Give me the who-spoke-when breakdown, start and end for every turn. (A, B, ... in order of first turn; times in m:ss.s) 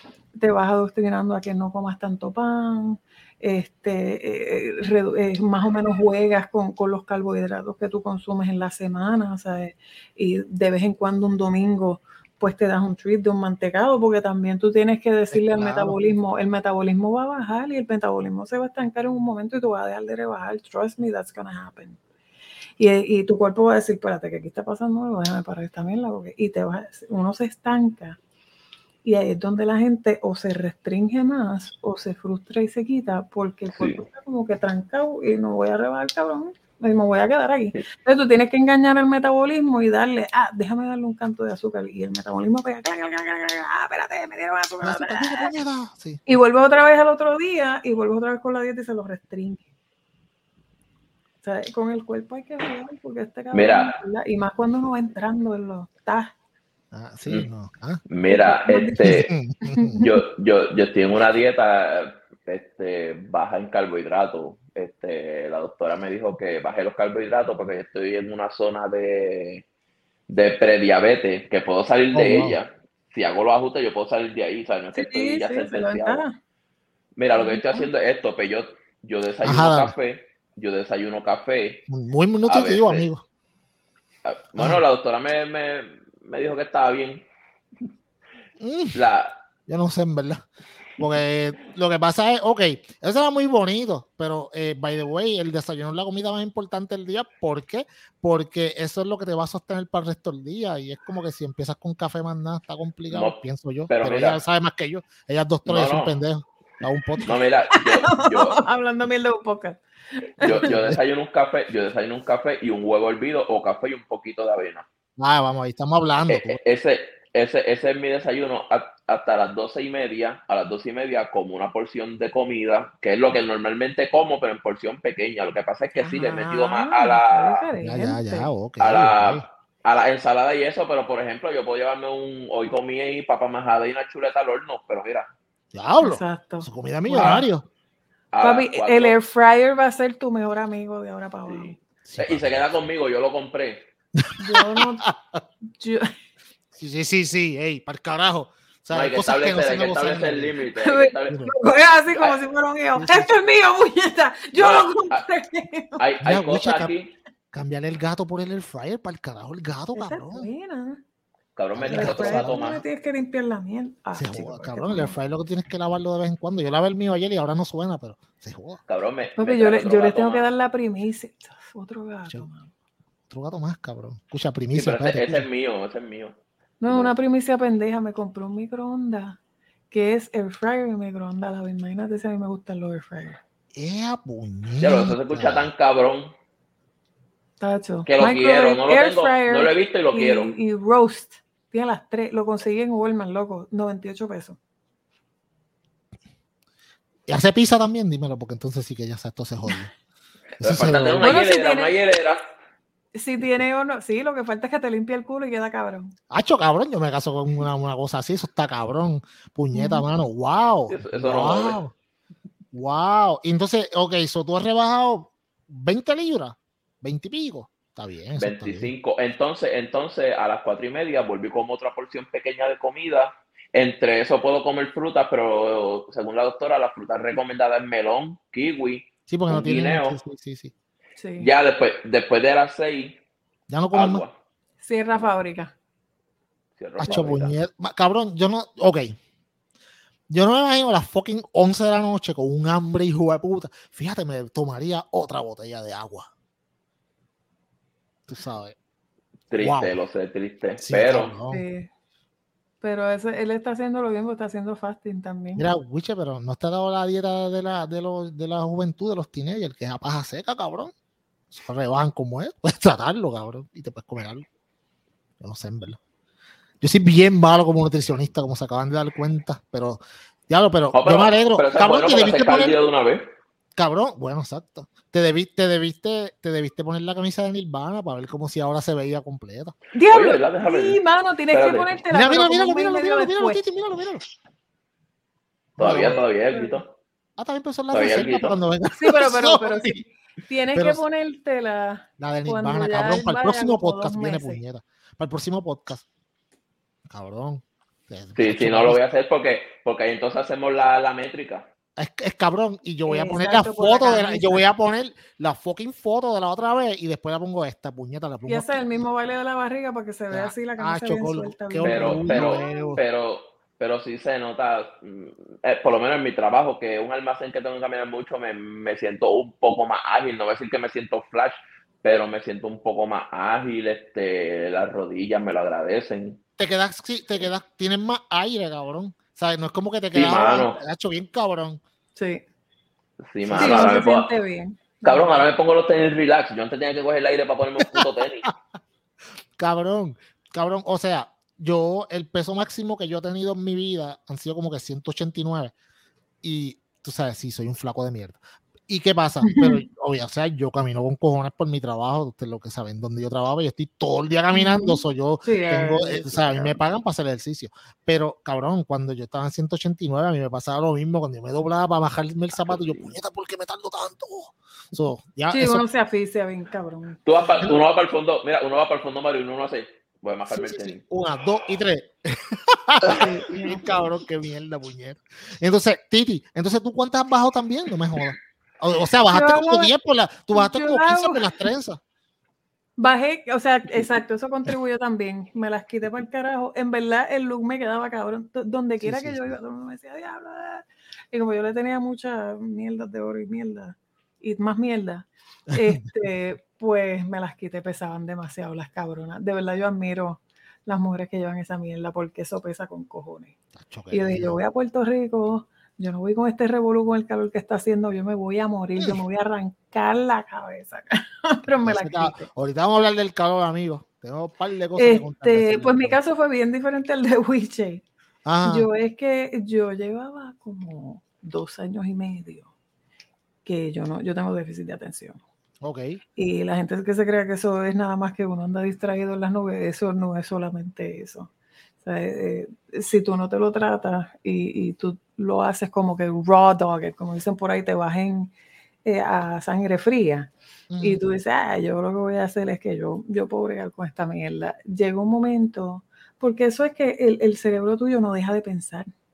0:00.4-0:22.0 A
0:15.3-0:16.0 B
0:22.8-0:28.2 A
0:29.0-0:45.5 A
0:33.8-0:34.0 C
0:44.8-0:46.2 B
0:46.3-0:49.6 A
0:51.4-0:56.3 A
0:53.5-0:54.0 C
0:56.9-0:58.0 B
0:58.1-0:59.3 C
0:58.3-1:00.2 A
0:59.0-1:00.0 B
1:00.0-1:09.6 C
1:10.3-1:16.2 C
1:12.1-1:12.6 B
1:14.9-1:16.4 A
1:17.2-1:21.8 C
1:17.4-1:17.9 A
1:19.4-1:20.0 B
1:21.9-1:23.2 B
1:22.5-1:23.1 C
1:24.2-1:27.2 C
1:24.6-1:24.8 B
1:28.6-1:29.0 B
1:29.0-1:29.4 C
1:29.7-1:30.4 B
1:31.0-1:47.4 B
1:43.1-1:43.4 C
1:43.9-1:44.4 C
1:45.6-1:46.2 C
1:47.3-1:48.6 C
1:47.8-1:49.8 A
1:50.4-1:50.7 A
1:50.4-1:54.9 C
1:50.6-1:51.0 B
1:55.2-1:56.6 B
1:56.3-2:07.7 C
2:06.0-2:08.5 A
2:07.8-2:09.4 B
2:08.8-2:15.3 C
2:15.7-2:17.6 B
2:16.0-2:17.4 A
2:18.3-2:19.2 C
2:18.4-2:21.8 A
2:21.5-2:23.9 C
2:22.0-2:22.5 B
2:24.2-2:25.4 B
2:24.4-2:25.1 A
2:25.8-2:26.1 A
2:26.7-2:30.5 B
2:28.9-2:31.4 C
2:30.8-2:36.0 A
2:31.3-2:31.5 B
2:32.1-2:32.4 C
2:33.0-2:33.3 B
2:34.6-2:35.2 C
2:36.0-2:37.1 C
2:36.2-2:36.9 B
2:37.5-2:40.5 B
2:40.0-2:41.0 A
2:41.6-2:42.8 C
2:41.7-2:42.8 B
2:41.9-2:45.2 A
2:44.2-2:48.8 B
2:48.9-2:50.5 C
2:49.4-2:52.7 A
2:53.3-2:55.4 B
2:54.7-2:56.4 C
2:56.8-2:59.4 A
2:59.9-3:03.4 A
3:03.7-3:05.7 B
3:04.8-3:06.3 C
3:07.6-3:14.6 A
3:08.1-3:10.5 C
3:17.3-3:19.9 B
3:20.6-3:22.4 C
3:20.6-3:21.4 B
3:21.2-3:21.9 A
3:23.2-3:26.1 A
3:26.3-3:31.9 B
3:29.7-3:30.0 A
3:30.9-3:31.8 C
3:32.7-3:38.9 B
3:38.4-3:50.2 C
3:49.3-3:50.7 B
3:51.2-3:51.5 A
3:51.4-3:53.2 C
3:53.7-3:54.2 B
3:53.9-3:54.3 C
3:54.8-3:55.7 A
3:56.8-3:57.6 C
3:57.0-3:59.2 B
4:00.3-4:06.3 B
4:08.3-4:08.8 B
4:09.5-4:11.3 C
4:09.6-4:10.0 B
4:10.8-4:11.6 B
4:11.5-4:11.9 A
4:12.8-4:15.7 A
4:15.6-4:20.9 B
4:21.5-4:24.4 B
4:25.4-4:26.0 B
4:26.8-4:32.8 B
4:30.9-4:33.2 C
4:33.8-4:39.7 B
4:39.9-4:43.6 A
4:40.1-4:41.0 C
4:41.5-4:42.0 C
4:42.1-4:44.2 B
4:45.8-4:46.2 B
4:45.8-4:46.9 C
4:45.9-4:46.8 A
4:47.4-4:50.0 B
4:47.9-4:48.6 C
4:49.0-4:54.6 A
4:50.8-4:51.0 B
4:52.2-4:56.0 B
4:57.1-4:59.0 B
4:58.4-5:01.7 C
5:02.0-5:09.0 B
5:03.1-5:04.6 A
5:08.5-5:12.9 A
5:10.3-5:13.0 B
5:11.8-5:26.4 C
5:26.6-5:31.8 B
5:30.1-5:30.8 C
5:32.2-5:32.4 A
5:33.2-5:34.3 C
5:33.4-5:34.0 B
5:33.6-5:35.5 A
5:35.0-5:38.5 C
5:37.8-5:38.5 B
5:39.6-5:45.7 B
5:46.4-6:05.8 B
5:49.4-5:49.8 A
5:54.5-5:56.8 A
6:02.6-6:03.2 C
6:05.5-6:07.2 A
6:07.2-6:11.0 C
6:10.5-6:22.0 B
6:13.0-6:13.3 C
6:13.0-6:13.8 A
6:19.3-6:19.9 A
6:20.5-6:21.5 A
6:23.0-6:43.5 A
6:29.0-6:29.6 B
6:35.8-6:36.0 B
6:43.8-6:44.6 B
6:44.1-6:52.5 A
6:51.8-6:56.2 B
6:55.0-6:58.0 A
6:58.4-6:58.9 B
6:58.6-7:02.7 A
7:03.6-7:05.4 A
7:05.8-7:06.2 B
7:06.4-7:11.5 A
7:12.0-7:18.5 A
7:19.0-7:29.1 A
7:20.9-7:21.2 B